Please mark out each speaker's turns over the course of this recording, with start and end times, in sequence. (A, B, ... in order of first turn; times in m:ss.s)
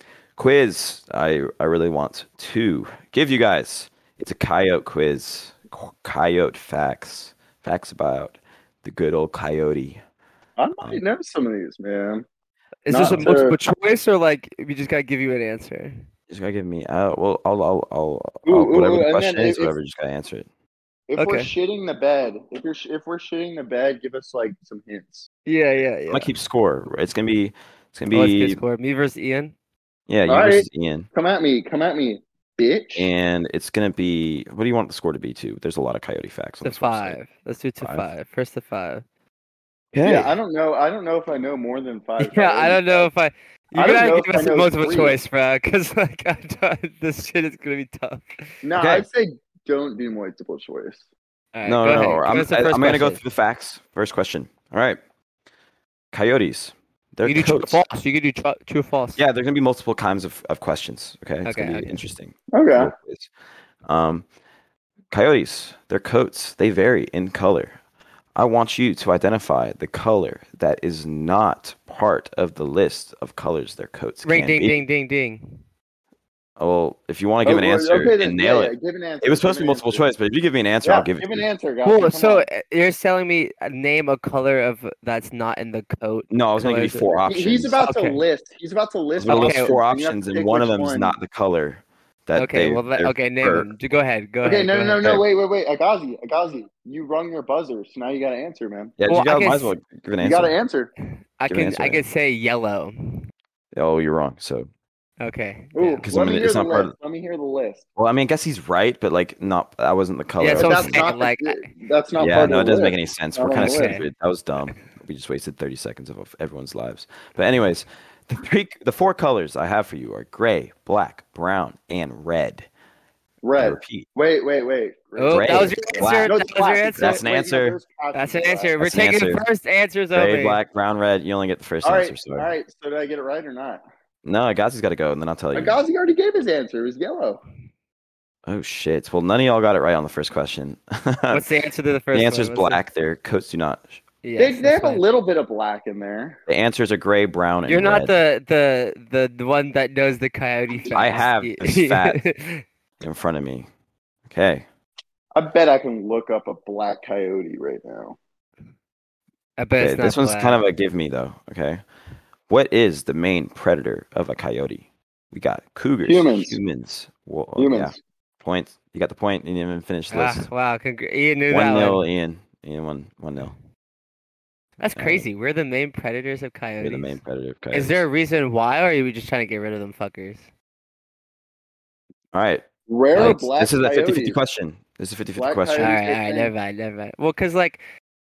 0:00.4-0:10.0 A
0:10.6-0:12.2 B
0:12.8-0:16.0 C
0:12.9-0:13.6 B
0:13.0-0:13.3 A
0:16.3-0:20.5 A
0:18.5-0:19.8 B
0:21.1-0:25.3 B
0:21.2-0:21.5 C
0:25.5-0:26.3 C
0:26.1-0:28.6 A
0:28.1-0:29.5 C
0:30.1-0:31.1 A
0:30.3-0:33.1 B
0:33.0-0:37.2 A
0:36.6-0:39.0 C
0:39.9-0:40.4 A
0:40.0-0:43.1 B
0:42.2-0:48.5 C
0:43.8-0:45.2 B
0:48.6-0:51.0 B
0:48.8-0:49.1 A
0:51.5-0:53.2 C
0:51.6-0:55.0 A
0:56.1-0:57.8 A
0:57.2-0:59.2 C
0:59.2-1:03.3 A
1:01.4-1:02.1 C
1:02.5-1:02.9 B
1:03.8-1:04.2 A
1:05.1-1:07.8 A
1:08.4-1:14.8 A
1:14.2-1:15.6 C
1:16.6-1:21.5 A
1:17.4-1:20.0 B
1:20.8-1:22.5 B
1:21.8-1:27.1 C
1:26.3-1:27.8 A
1:27.3-1:31.2 B
1:27.8-1:28.2 C
1:29.2-1:33.7 A
1:29.3-1:29.8 C
1:32.4-1:35.1 C
1:34.4-1:39.0 B
1:39.0-1:40.5 A
1:39.1-1:39.7 C
1:40.2-1:40.9 B
1:41.4-1:43.3 C
1:41.5-1:42.0 A
1:43.7-1:44.7 A
1:45.2-1:46.1 C
1:45.8-1:47.8 B
1:46.0-1:46.9 A
1:48.0-1:51.1 A
1:50.4-1:51.7 C
1:50.5-1:54.0 B
1:52.2-2:02.7 A
1:53.6-1:54.0 C
2:03.4-2:08.8 B
2:03.6-2:04.1 A
2:05.2-2:07.2 C
2:05.3-2:06.3 A
2:07.0-2:07.8 A
2:08.1-2:10.6 C
2:08.8-2:09.4 A
2:10.1-2:12.5 A
2:11.8-2:13.8 B
2:14.2-2:15.8 A
2:15.5-2:17.4 B
2:18.5-2:21.5 A
2:21.3-2:22.8 C
2:22.1-2:24.0 A
2:24.2-2:25.0 C
2:24.4-2:26.4 B
2:26.5-2:28.1 A
2:27.7-2:32.6 C
2:30.9-2:32.2 A
2:33.0-2:33.7 A
2:34.3-2:34.7 A
2:35.4-2:38.2 B
2:39.6-2:40.6 C
2:39.8-2:41.8 A
2:42.5-2:50.5 A
2:46.0-2:46.6 B
2:47.6-2:48.0 B
2:50.1-2:52.0 C
2:51.5-2:53.5 A
2:54.8-2:57.2 C
2:55.0-2:55.2 A
2:56.8-2:58.0 A
2:57.7-3:00.5 C
3:02.3-3:06.0 A
3:02.9-3:04.4 B
3:05.4-3:06.5 B
3:05.8-3:07.8 C